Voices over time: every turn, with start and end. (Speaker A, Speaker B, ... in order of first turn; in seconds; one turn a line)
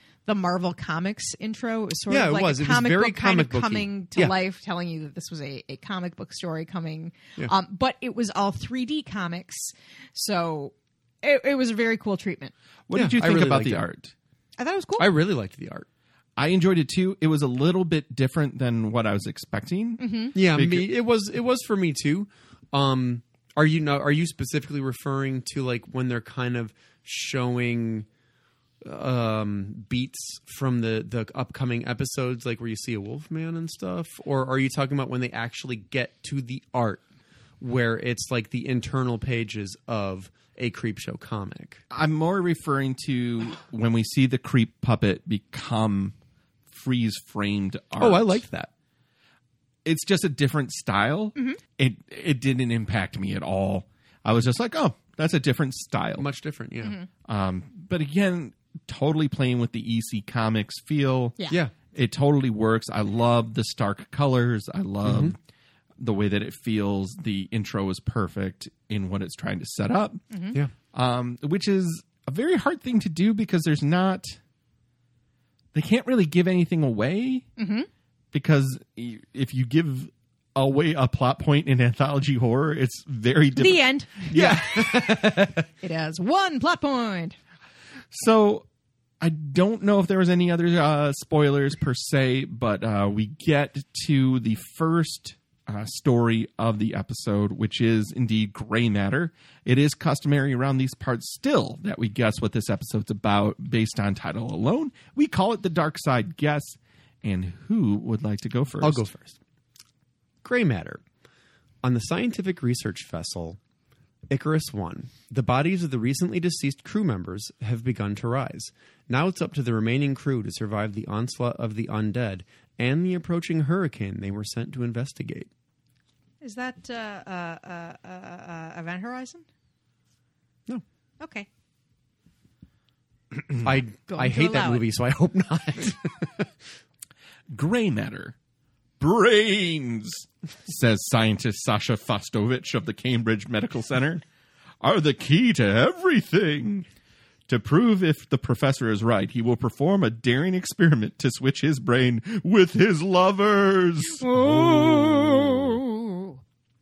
Speaker A: 0.3-12.5
Speaker B: 2.1-4.3
Speaker C: 12.9-14.1
Speaker B: 12.9-13.8
Speaker A: 14.6-15.1
Speaker B: 15.0-15.9
Speaker C: 16.4-20.9
Speaker A: 20.0-20.4
Speaker B: 20.4-28.1
Speaker B: 28.8-37.0
Speaker B: 37.6-41.8
Speaker C: 41.9-46.1
Speaker C: 46.7-48.4
Speaker B: 48.0-48.7
Speaker C: 49.9-56.3
Speaker B: 56.2-57.0
Speaker C: 57.2-61.4
Speaker C: 61.9-65.4
Speaker B: 65.0-65.3
Speaker C: 66.0-70.2
Speaker A: 70.3-70.6
Speaker C: 70.9-74.4
Speaker C: 75.7-77.5
Speaker A: 77.6-77.9
Speaker C: 78.3-84.7
Speaker A: 83.6-85.2
Speaker B: 84.3-85.6
Speaker A: 85.8-87.4
Speaker C: 88.1-88.7
Speaker C: 89.2-109.0
Speaker B: 108.8-109.4
Speaker B: 110.4-111.0
Speaker B: 111.8-113.6
Speaker B: 114.3-125.5
Speaker A: 126.4-129.4
Speaker A: 131.2-131.5
Speaker B: 133.6-136.5
Speaker A: 134.1-134.9
Speaker C: 137.5-138.3
Speaker C: 139.0-144.2
Speaker C: 144.8-146.9
Speaker C: 147.5-155.6
Speaker A: 154.2-156.4